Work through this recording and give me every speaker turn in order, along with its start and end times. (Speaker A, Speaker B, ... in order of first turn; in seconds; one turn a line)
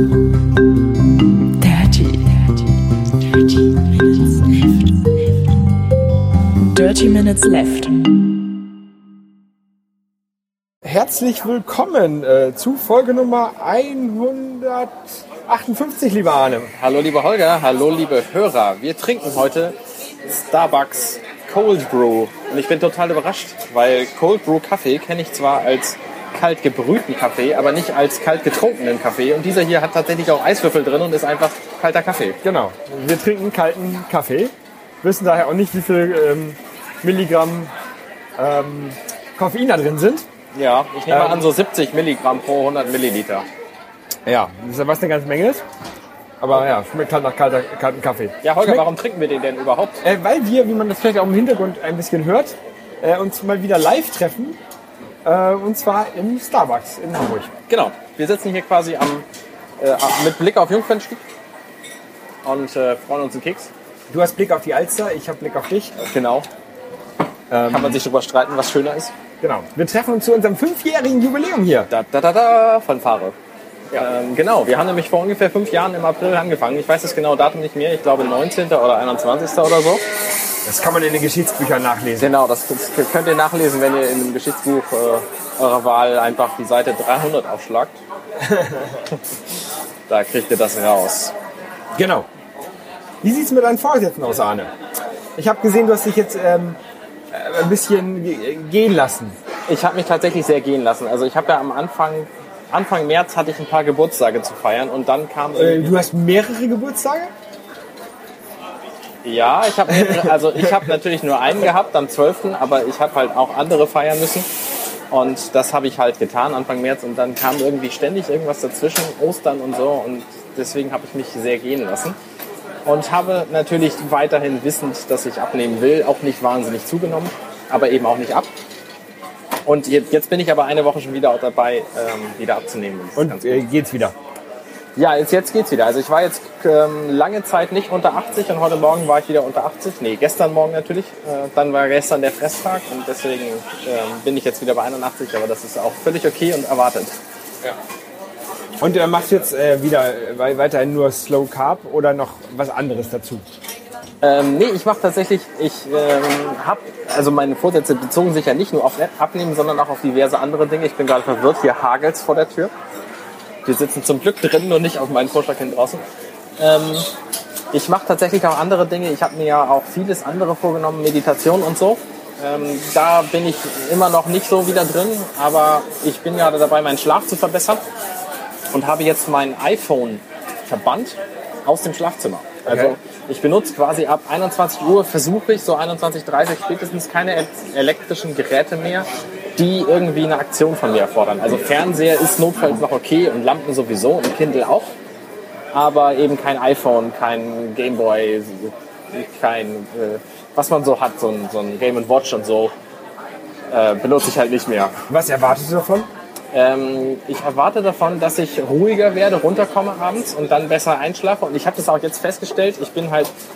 Speaker A: 1.6-2.7
Speaker A: 3.2-5.0
Speaker A: 6.7-8.0
Speaker B: 10.8-16.7
Speaker C: 16.8-32.4
Speaker B: 32.4-37.7
Speaker B: 38.4-40.3
Speaker C: 40.5-43.5
Speaker B: 41.1-41.5
Speaker B: 44.3-45.6
Speaker B: 46.4-48.9
Speaker C: 48.4-50.0
Speaker B: 50.0-54.6
Speaker B: 55.2-57.5
Speaker C: 57.7-59.2
Speaker C: 59.8-61.2
Speaker C: 62.4-63.7
Speaker B: 64.1-66.0
Speaker C: 66.0-66.5
Speaker B: 67.5-68.0
Speaker C: 67.7-69.1
Speaker B: 69.4-71.9
Speaker C: 71.9-73.3
Speaker C: 73.9-80.0
Speaker B: 80.6-82.3
Speaker C: 82.2-88.0
Speaker B: 88.4-89.0
Speaker C: 90.1-91.3
Speaker B: 92.0-92.3
Speaker B: 93.2-94.7
Speaker B: 95.4-96.8
Speaker B: 97.3-99.4
Speaker C: 99.7-106.0
Speaker B: 105.5-107.3
Speaker C: 109.2-114.5
Speaker B: 110.0-110.3
Speaker C: 115.1-122.2
Speaker C: 122.8-128.5
Speaker C: 129.7-133.6
Speaker B: 133.2-134.2
Speaker C: 135.0-147.2
Speaker B: 148.8-153.4
Speaker C: 154.2-162.7
Speaker C: 163.7-166.0
Speaker C: 166.6-167.1
Speaker C: 167.7-177.8
Speaker C: 178.7-195.0
Speaker B: 182.7-182.9
Speaker C: 195.7-202.7
Speaker C: 203.7-205.0
Speaker B: 205.1-206.1
Speaker C: 206.5-213.3